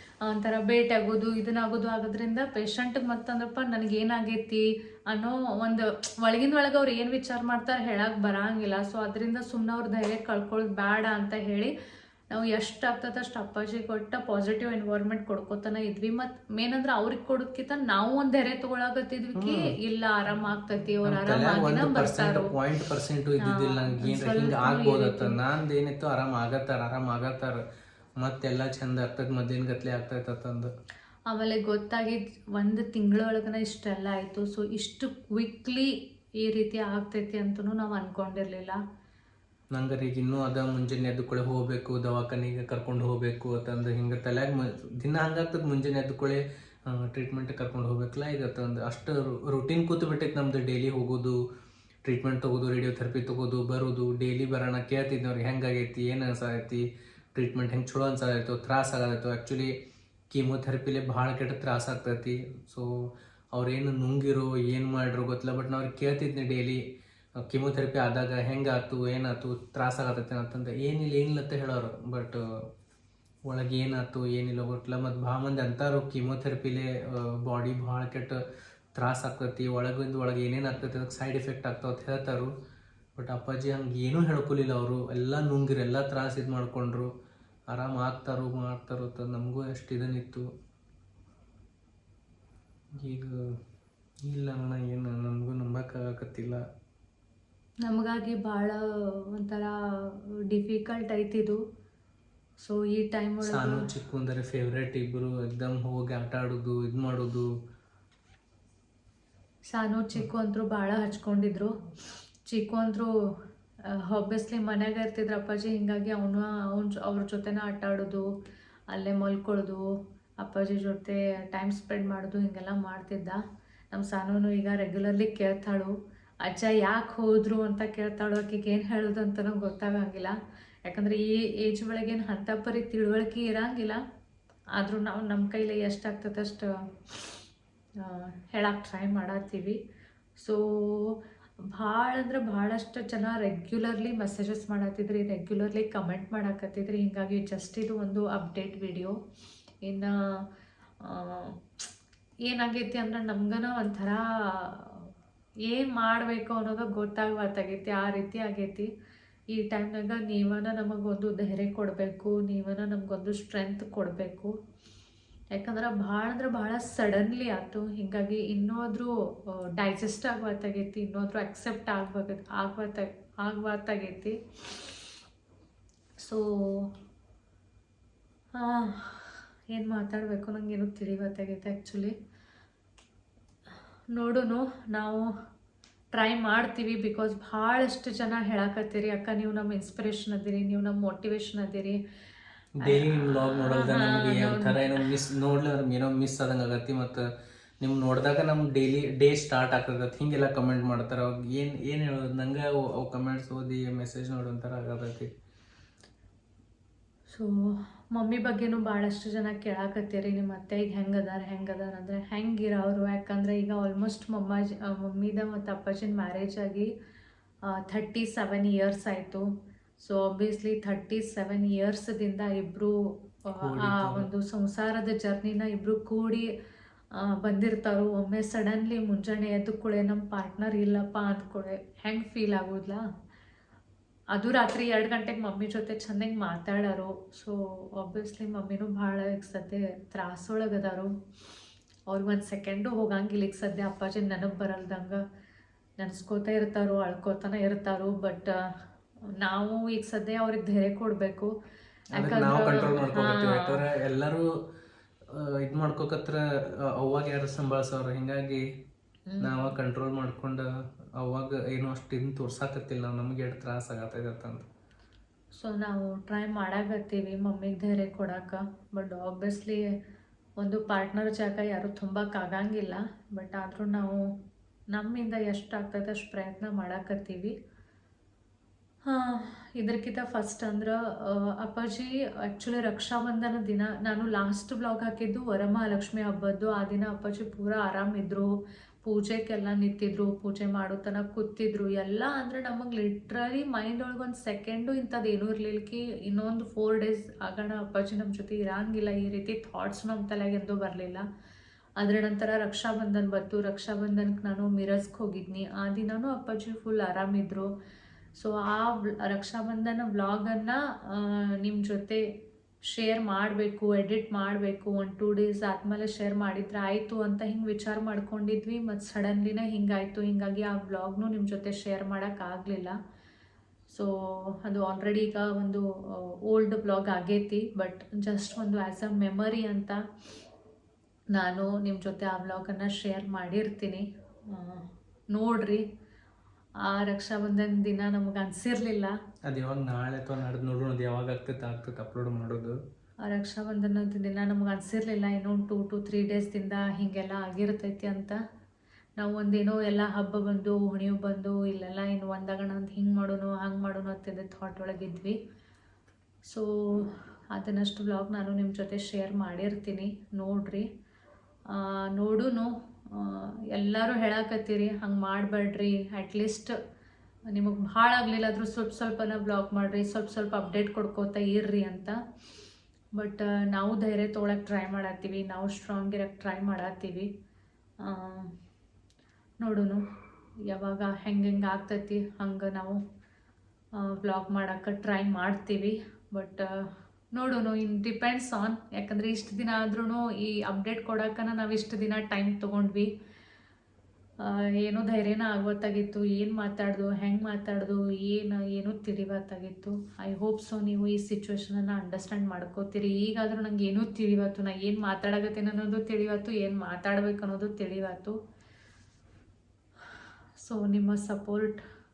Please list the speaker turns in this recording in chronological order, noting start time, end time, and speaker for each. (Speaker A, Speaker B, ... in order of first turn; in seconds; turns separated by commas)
Speaker A: 0.2-11.7, Speaker A: 12.3-22.5, Speaker B: 19.3-19.7, Speaker B: 21.0-27.6, Speaker A: 23.4-25.4, Speaker B: 28.2-30.7, Speaker A: 31.3-38.8, Speaker B: 39.7-51.4, Speaker B: 52.0-59.7, Speaker B: 60.3-62.9, Speaker B: 63.5-66.8, Speaker B: 67.4-72.4, Speaker B: 73.5-78.4, Speaker B: 78.9-82.5, Speaker B: 83.2-87.1, Speaker B: 87.7-90.5, Speaker B: 93.0-93.3, Speaker B: 94.2-96.6, Speaker A: 97.8-101.6, Speaker A: 102.6-103.8, Speaker B: 103.4-107.5, Speaker A: 109.7-111.7, Speaker A: 112.5-113.1, Speaker A: 113.9-118.3, Speaker A: 118.9-119.8, Speaker A: 120.4-123.4, Speaker A: 123.9-134.0, Speaker A: 134.8-137.4, Speaker A: 138.0-139.8, Speaker A: 140.4-141.2, Speaker A: 141.7-149.2, Speaker A: 149.8-150.4, Speaker A: 151.0-151.5, Speaker A: 152.5-155.1, Speaker A: 155.7-158.9, Speaker A: 159.5-164.5, Speaker A: 165.5-169.1, Speaker A: 169.7-174.9, Speaker A: 176.2-176.9, Speaker A: 178.5-182.1, Speaker A: 184.1-185.3, Speaker A: 186.1-192.0, Speaker B: 192.8-197.2, Speaker A: 192.8-195.1, Speaker B: 197.8-205.3, Speaker A: 207.3-216.9, Speaker A: 217.7-219.5, Speaker A: 220.0-226.5, Speaker B: 223.6-224.3, Speaker A: 227.1-233.0, Speaker A: 234.3-241.1, Speaker A: 242.1-245.2, Speaker A: 246.0-248.5, Speaker A: 249.4-251.5, Speaker A: 252.2-253.8, Speaker B: 252.2-254.4, Speaker B: 255.3-256.4, Speaker B: 256.9-258.6, Speaker A: 259.3-259.7, Speaker B: 259.4-260.6, Speaker B: 261.2-264.6, Speaker A: 265.6-269.9, Speaker A: 270.6-274.2, Speaker A: 274.9-277.5, Speaker A: 279.0-288.5, Speaker A: 289.0-301.2, Speaker A: 302.0-307.7, Speaker A: 308.4-312.2, Speaker A: 312.9-323.0, Speaker A: 323.9-330.0, Speaker A: 331.3-335.8, Speaker A: 336.9-339.1, Speaker B: 339.5-342.8, Speaker A: 343.2-348.4, Speaker A: 349.2-355.4, Speaker A: 356.4-360.9, Speaker A: 361.7-366.7, Speaker A: 367.5-372.2, Speaker A: 373.1-377.3, Speaker A: 378.0-378.5, Speaker A: 379.6-380.0, Speaker A: 380.7-383.0, Speaker A: 384.0-393.1, Speaker A: 394.4-408.4, Speaker A: 410.6-411.8